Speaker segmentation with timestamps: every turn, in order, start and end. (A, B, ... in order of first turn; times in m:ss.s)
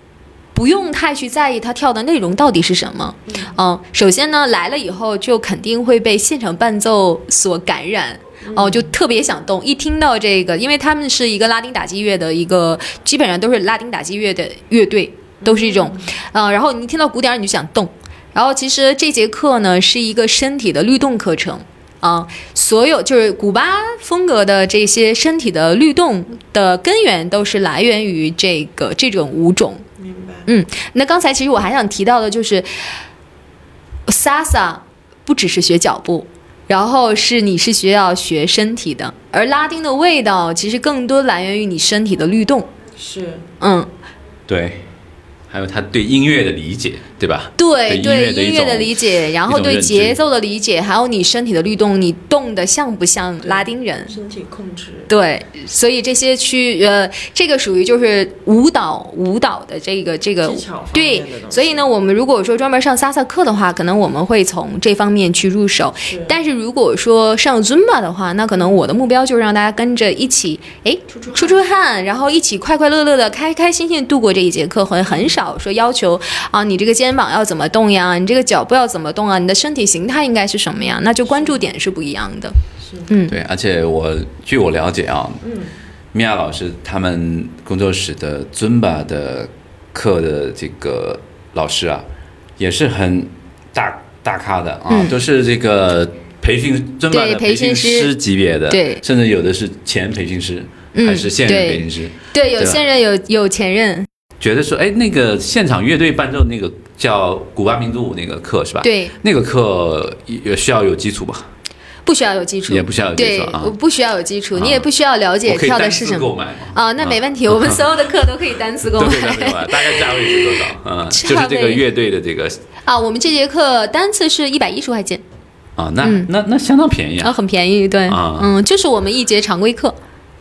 0:00.5-0:29.8 A
0:03.3-0:03.5 B
0:08.4-0:08.9 B
0:15.4-0:16.1 B
0:30.0-0:30.5 B
0:30.5-0:32.7 A
0:34.1-0:42.7 A
0:43.0-0:43.5 B
0:43.6-0:43.9 A
0:44.5-0:44.8 C
0:45.5-0:50.2 C
0:47.6-0:54.2 A
0:53.4-0:55.1 B
0:55.1-1:22.6 A
1:00.4-1:01.9 B
1:06.1-1:06.4 B
1:11.1-1:11.6 B
1:15.1-1:15.4 B
1:21.3-1:21.6 B
1:22.8-1:23.1 B
1:23.1-1:23.4 A
1:23.3-1:25.4 C
1:25.4-1:25.7 B
1:26.1-1:32.1 C
1:32.6-1:42.8 C
1:34.9-1:35.2 A
1:37.1-1:38.1 A
1:38.7-1:39.0 A
1:40.9-1:44.1 A
1:44.4-1:51.5 C
1:48.8-1:49.2 A
1:52.0-2:01.8 A
1:52.7-1:53.7 C
1:54.6-1:54.9 C
1:55.4-1:57.8 C
1:58.9-2:02.6 C
2:02.8-2:05.2 A
2:05.8-2:07.4 C
2:06.0-2:06.3 A
2:07.2-2:10.0 A
2:08.1-2:08.5 C